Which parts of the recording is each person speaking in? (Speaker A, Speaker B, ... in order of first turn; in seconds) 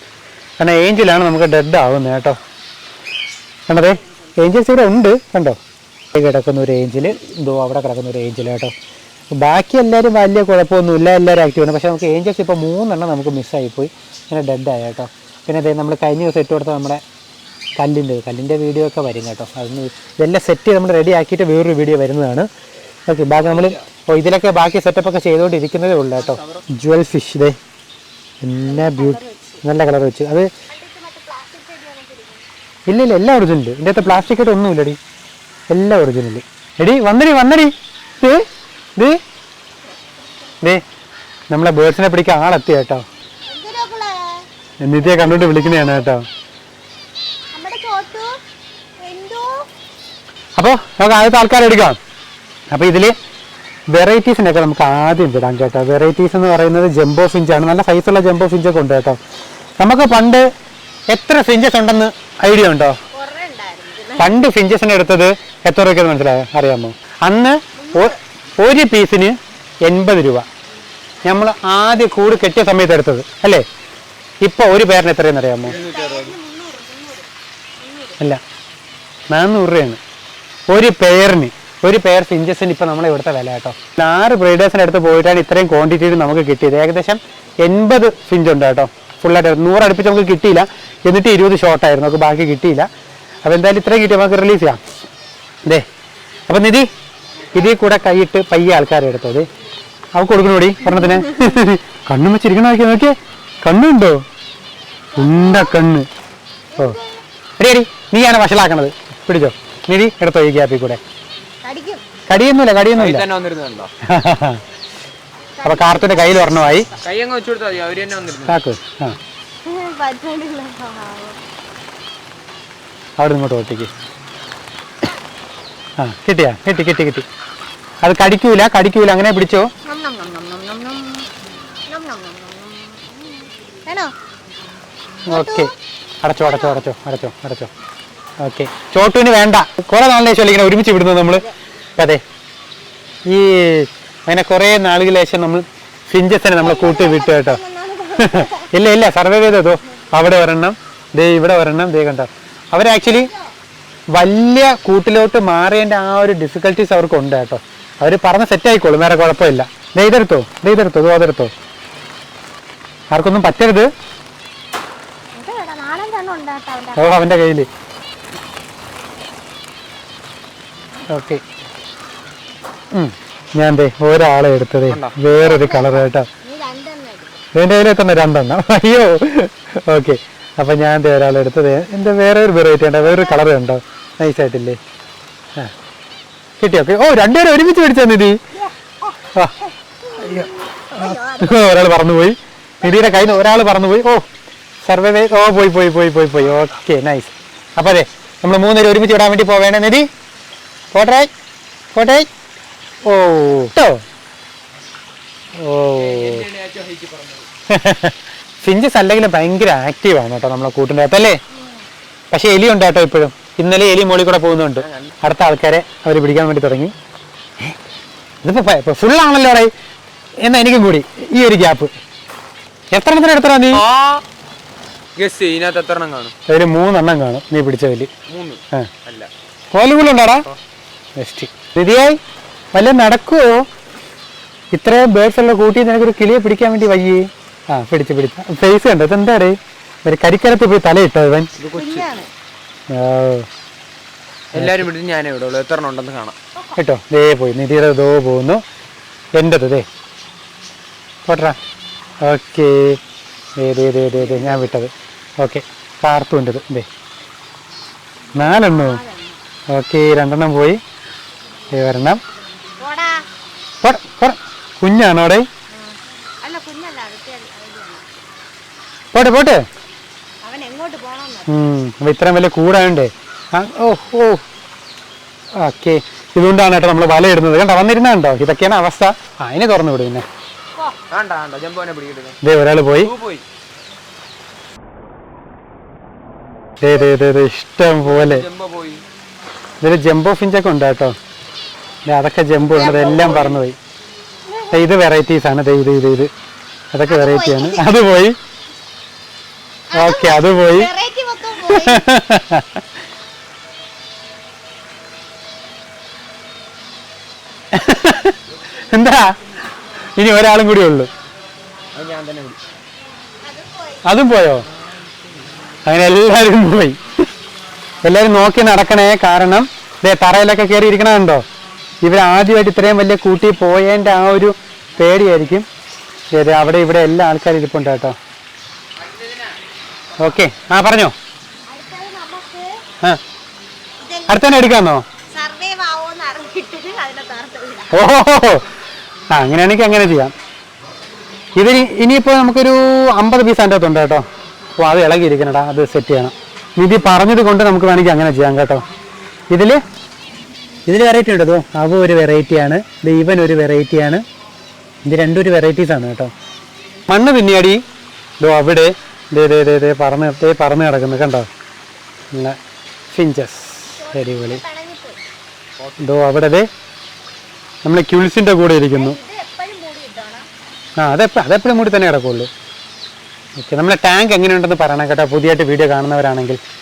Speaker A: 0.6-2.4, 3.7-5.6, 6.1-8.7, 9.4-17.0, 17.8-22.5, 23.1-27.6, 28.4-30.5, 32.9-35.0, 35.7-38.5, 41.5-43.0, 44.8-46.2, 50.6-52.0, 52.7-53.1, 53.9-59.2, 59.8-60.4, 61.1-63.0, 64.2-70.5, 71.2-73.6, 74.4-75.8, 79.3-80.0, 80.7-92.9, 93.4-94.8, 96.5-96.9, 97.5-99.5, 100.2-104.2, 105.2-106.1, 107.6-111.0, 112.3-113.3, 114.0-114.6, 115.6-116.9, 118.4-119.2, 123.2-123.9, 126.0-127.2, 128.0-129.7, 135.2-135.7, 136.2-137.7, 138.4-142.2, 143.2-147.6, 148.1-153.3, 154.1-161.5, 163.1-163.9, 166.9-167.7, 171.1-171.4, 172.9-176.3, 177.5-184.8, 186.6-188.4, 190.2-194.2, 194.8-200.1, 200.9-201.3, 201.9-202.3, 203.1-204.0, 205.6-206.5, 207.7-211.4, 212.3-216.9, 218.4-219.7, 220.4-221.9, 222.9-223.9, 226.5-228.1, 229.7-230.4, 231.2-232.2, 232.7-233.6, 234.7-241.5, 242.9-243.5, 244.6-244.9, 246.8-248.6, 249.4-249.9, 251.2-251.6, 252.2-253.0, 253.6-256.9, 258.3-259.0, 259.7-260.8, 261.7-262.2, 263.8-265.4, 269.1-269.6, 271.5-274.4, 275.6-280.2, 282.4-283.1, 286.8-288.4, 289.8-291.1, 292.1-293.8, 294.7-296.3, 296.9-298.4, 299.9-300.9, 301.6-302.8, 307.7-308.4, 308.9-309.3, 310.1-311.1, 314.0-314.6, 315.8-317.0, 318.0-321.4, 322.0-325.6, 326.3-328.1, 330.2-331.1, 334.3-335.0, 337.9-338.6, 339.3-340.3, 341.5-344.2, 344.8-348.8, 349.5-349.8, 350.9-354.2, 355.0-356.3, 357.1-357.8, 358.4-361.5, 363.1-364.6, 366.0-366.7, 367.8-369.2, 371.0-372.5, 373.6-376.6
Speaker B: 23.4-23.8, 26.3-26.6, 75.7-76.3, 112.9-113.9, 117.0-118.6, 174.9-175.2, 205.9-207.5, 214.8-215.2, 223.8-224.2, 225.2-226.3, 228.3-229.3, 241.6-242.2, 244.5-246.4, 254.1-254.7, 281.1-282.4, 282.9-283.4, 288.0-289.0, 292.8-293.5, 311.9-312.6, 329.0-329.5, 365.8-366.2
Speaker C: 28.6-29.6, 30.7-32.5, 43.5-44.5, 45.0-46.1, 47.5-48.3, 49.0-49.7, 63.1-64.4, 67.8-68.2, 75.7-77.3, 77.8-78.2, 97.4-97.8, 105.1-105.8, 106.7-107.2, 111.6-112.0, 115.6-117.0, 119.6-121.4, 129.8-131.3, 131.9-134.1, 135.3-135.7, 136.4-136.8, 146.5-148.7, 153.0-153.5, 165.3-167.1, 175.3-177.4, 183.1-183.4, 188.5-191.8, 192.8-193.6, 241.7-242.3, 246.5-246.8, 258.3-259.4, 262.8-263.2, 265.7-268.2, 270.4-271.6, 280.8-281.0, 292.7-293.4, 294.4-294.9, 297.0-298.0, 299.9-302.1, 313.4-314.2, 331.7-332.7, 334.0-338.0, 363.9-365.2, 368.9-370.5